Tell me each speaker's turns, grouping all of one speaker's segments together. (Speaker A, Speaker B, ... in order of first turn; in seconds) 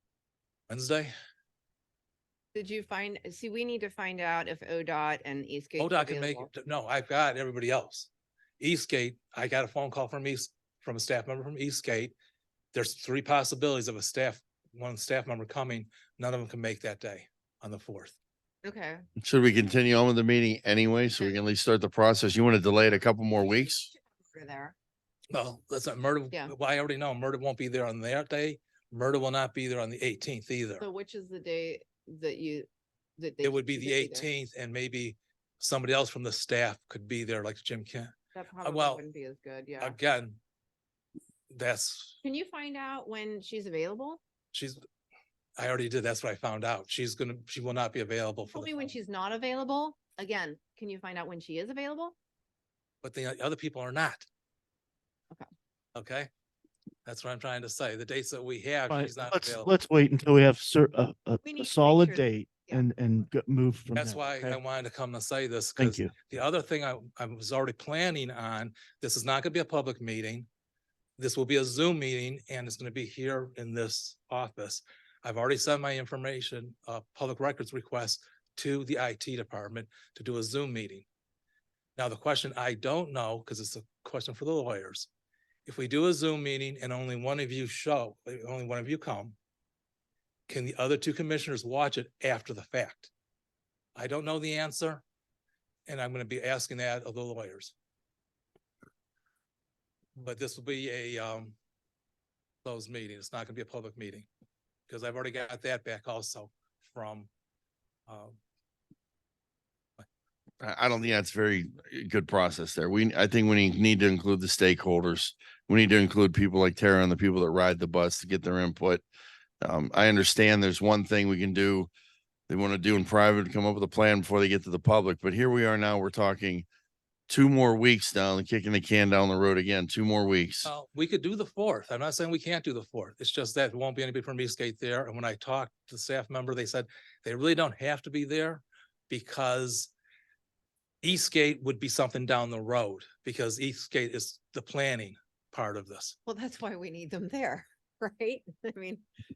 Speaker A: 0.7-1.1, 5.8-12.1, 12.7-18.2, 25.3-30.9, 33.4-39.0, 39.8-40.4, 41.5-42.2, 44.5-44.8, 45.6-48.9, 53.0-54.3, 56.0-56.3, 57.0-59.7, 64.0-70.5, 71.2-81.1, 82.0-85.1, 85.7-89.4, 90.5-93.1, 94.0-95.0, 95.9-97.7, 100.2-101.5, 102.6-104.3, 104.9-107.3, 108.1-108.4, 130.7-139.9, 141.0-146.2
Speaker B: 2.5-6.5, 18.6-19.0, 23.9-24.8, 30.8-32.7, 33.2-34.3, 38.4-40.0, 42.2-44.2, 48.5-52.1, 61.4-62.8, 146.3-149.0
Speaker C: 19.2-23.9, 110.6-119.0, 119.6-121.9, 122.5-126.7, 127.3-130.7
Speaker D: 58.9-64.6, 65.8-66.1